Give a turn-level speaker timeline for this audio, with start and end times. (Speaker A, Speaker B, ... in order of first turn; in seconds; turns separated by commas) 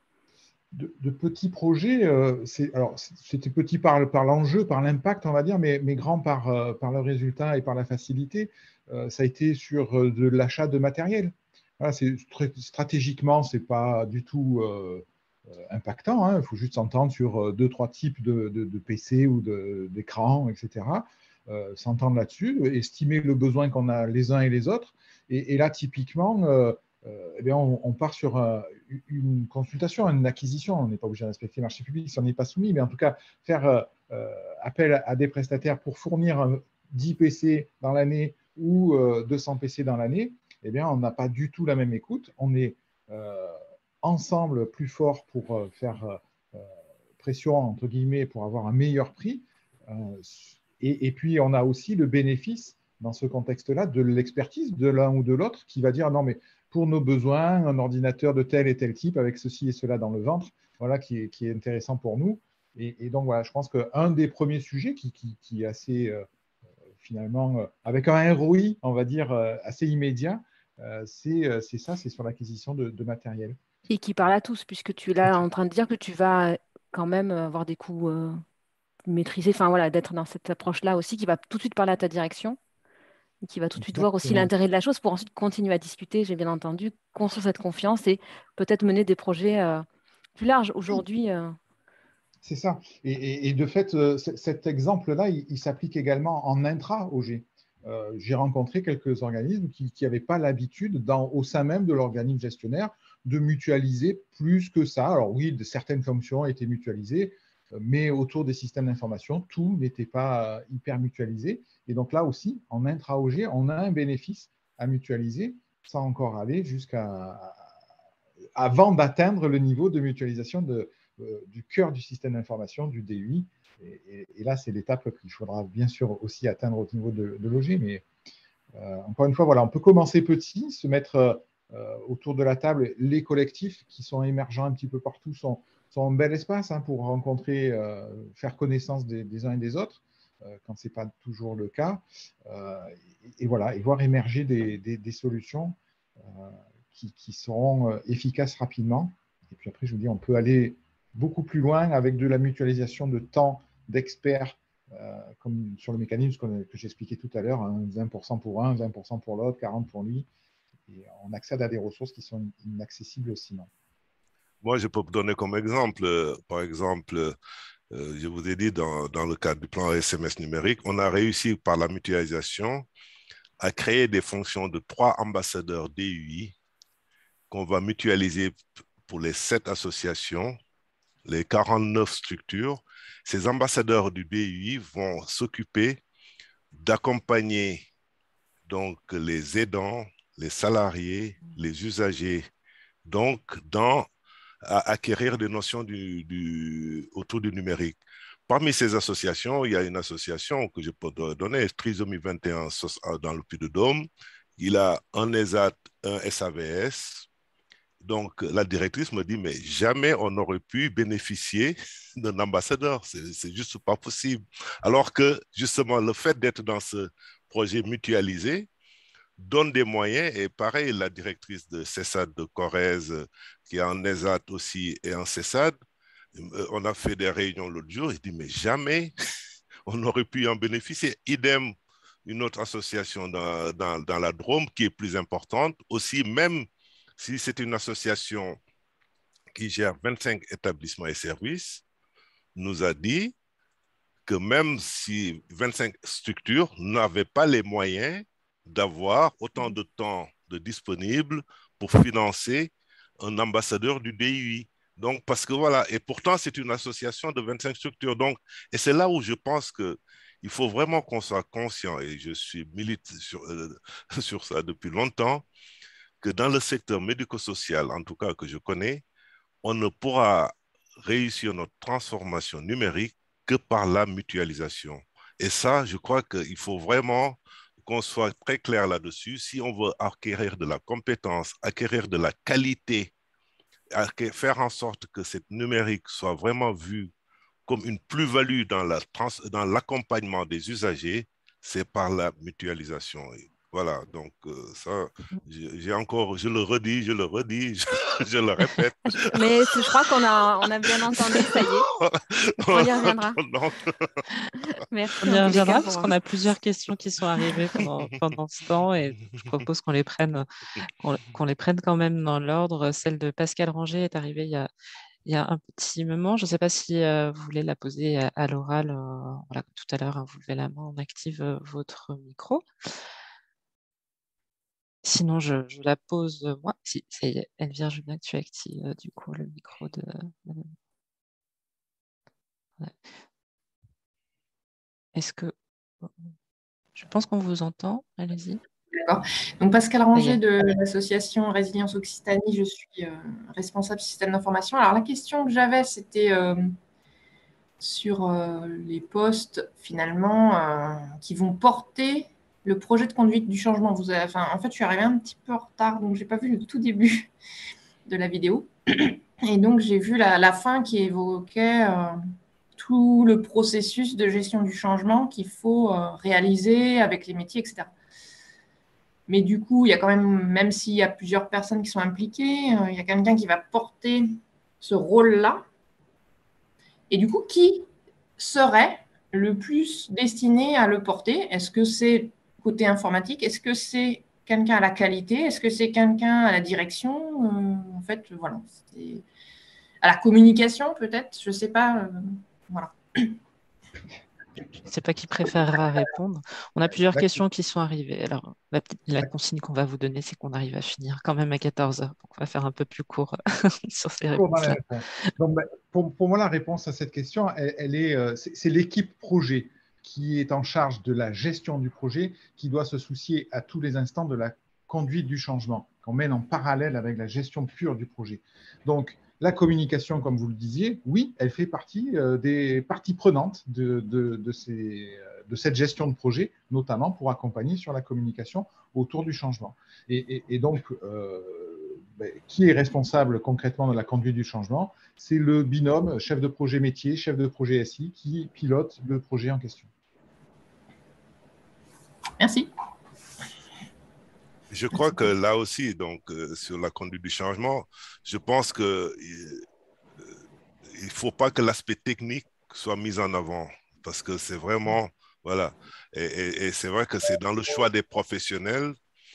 Speaker A: 0.7-46.7, Speaker A: 47.2-66.3, Speaker A: 67.0-73.6, Speaker B: 73.9-78.4, Speaker B: 79.1-82.6, Speaker B: 83.4-89.8, Speaker A: 83.8-84.5, Speaker B: 90.4-91.6, Speaker A: 92.4-117.7, Speaker A: 118.5-128.0, Speaker A: 128.7-160.3, Speaker A: 160.9-163.7, Speaker C: 164.6-167.3, Speaker C: 167.9-172.8, Speaker C: 173.6-176.5, Speaker C: 177.5-178.5, Speaker C: 179.1-180.6, Speaker C: 181.2-186.0, Speaker C: 186.7-187.8, Speaker C: 188.7-192.4, Speaker C: 193.0-194.1, Speaker C: 194.6-198.0, Speaker C: 198.5-204.1, Speaker C: 204.6-207.3, Speaker C: 208.0-218.7, Speaker C: 219.4-225.7, Speaker C: 226.3-229.1, Speaker C: 229.9-231.7, Speaker C: 232.2-236.7, Speaker C: 237.2-238.6, Speaker C: 239.5-241.8, Speaker C: 242.6-243.3, Speaker C: 244.2-265.4, Speaker C: 266.2-269.0, Speaker C: 269.6-283.1, Speaker C: 283.9-287.1, Speaker C: 287.7-299.7, Speaker B: 299.3-301.9, Speaker C: 301.9-304.3, Speaker B: 302.7-303.4, Speaker B: 304.9-306.1, Speaker D: 305.2-310.5, Speaker C: 305.3-306.0, Speaker D: 311.0-314.7, Speaker D: 315.2-322.6, Speaker D: 325.0-330.7, Speaker D: 332.8-333.1, Speaker D: 335.1-336.3, Speaker D: 336.9-338.6, Speaker E: 338.9-346.7, Speaker D: 340.1-340.4, Speaker E: 347.8-357.3, Speaker E: 358.1-362.2, Speaker E: 362.8-367.9, Speaker E: 369.3-375.6, Speaker E: 377.1-389.2, Speaker E: 390.0-393.4, Speaker D: 394.9-404.8, Speaker A: 397.1-397.4, Speaker A: 404.3-439.9, Speaker E: 442.4-442.7, Speaker C: 444.7-449.6, Speaker C: 450.9-458.9